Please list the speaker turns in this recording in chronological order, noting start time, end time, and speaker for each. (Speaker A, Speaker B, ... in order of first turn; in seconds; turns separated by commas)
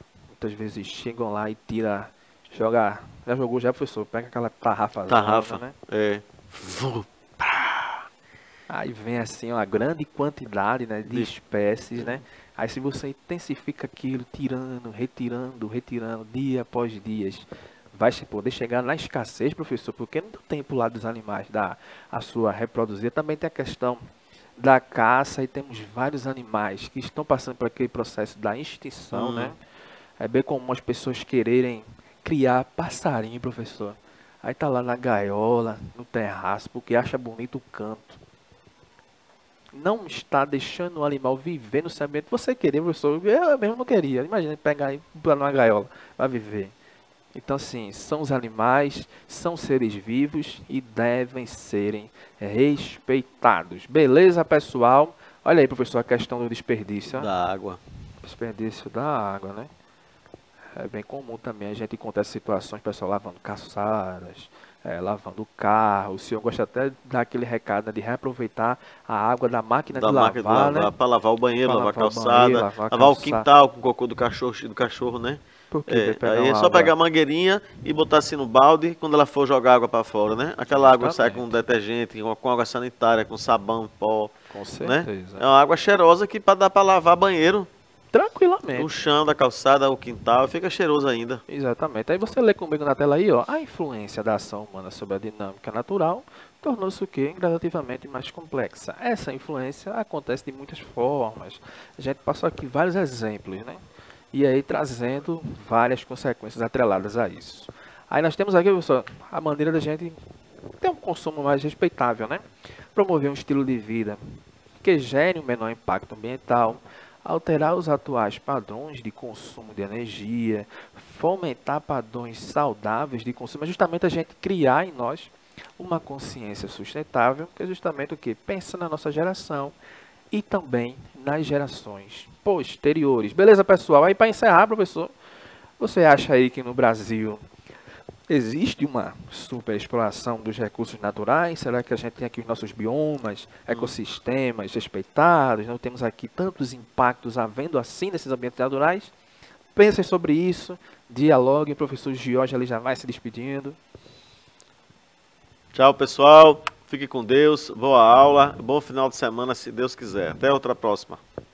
Speaker A: 0.3-5.7, Speaker B: 5.1-8.1, Speaker A: 8.7-24.0, Speaker B: 12.0-12.2, Speaker A: 24.6-29.6, Speaker B: 29.1-29.6, Speaker A: 30.2-38.2, Speaker A: 39.8-46.7, Speaker A: 47.3-57.3, Speaker B: 57.1-57.8, Speaker A: 58.2-59.7, Speaker A: 60.8-70.9, Speaker B: 69.9-87.7, Speaker A: 71.6-73.5, Speaker A: 75.7-76.9, Speaker A: 80.7-81.5, Speaker A: 84.5-85.5, Speaker A: 88.1-88.9, Speaker B: 88.7-91.4, Speaker A: 91.5-103.8, Speaker A: 104.3-110.2, Speaker A: 110.8-112.4, Speaker A: 112.9-129.8, Speaker A: 130.3-135.1, Speaker A: 135.8-137.4, Speaker A: 138.3-149.1, Speaker B: 143.7-143.9, Speaker A: 149.8-153.8, Speaker B: 155.7-161.2